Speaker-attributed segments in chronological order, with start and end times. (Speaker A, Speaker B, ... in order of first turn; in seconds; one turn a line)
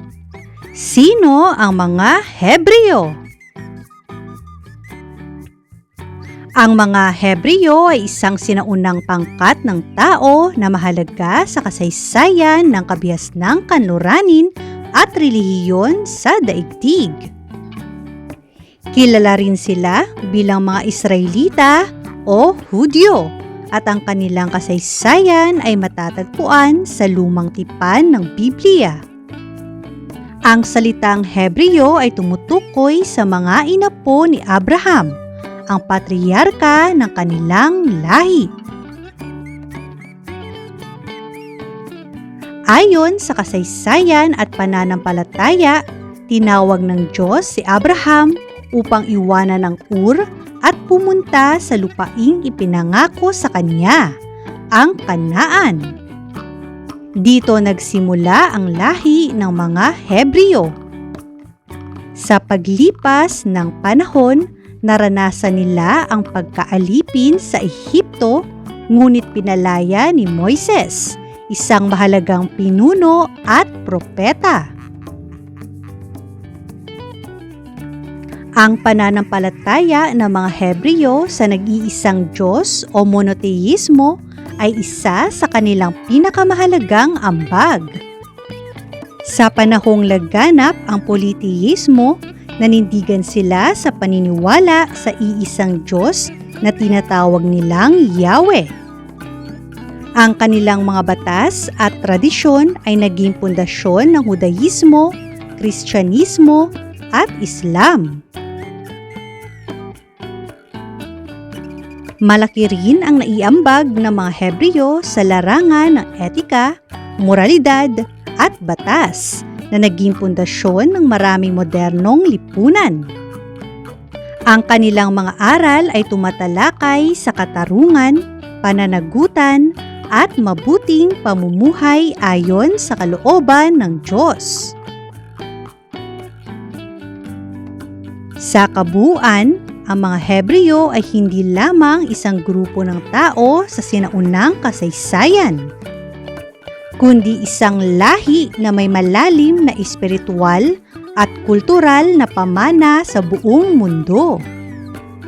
Speaker A: 0.8-3.2
Speaker A: 6.6-17.3
Speaker A: 19.0-29.0
Speaker A: 30.5-35.1
Speaker A: 35.7-38.5
Speaker A: 42.7-54.1
Speaker A: 54.8-55.9
Speaker A: 57.2-60.7
Speaker A: 62.2-68.4
Speaker A: 68.9-74.6
Speaker A: 78.6-88.0
Speaker A: 89.3-98.7
Speaker A: 100.2-108.2
Speaker A: 112.3-116.7
Speaker A: 117.2-123.0
Speaker A: 124.5-134.7
Speaker A: 138.4-145.6
Speaker A: 147.0-150.7
Speaker A: 151.2-154.4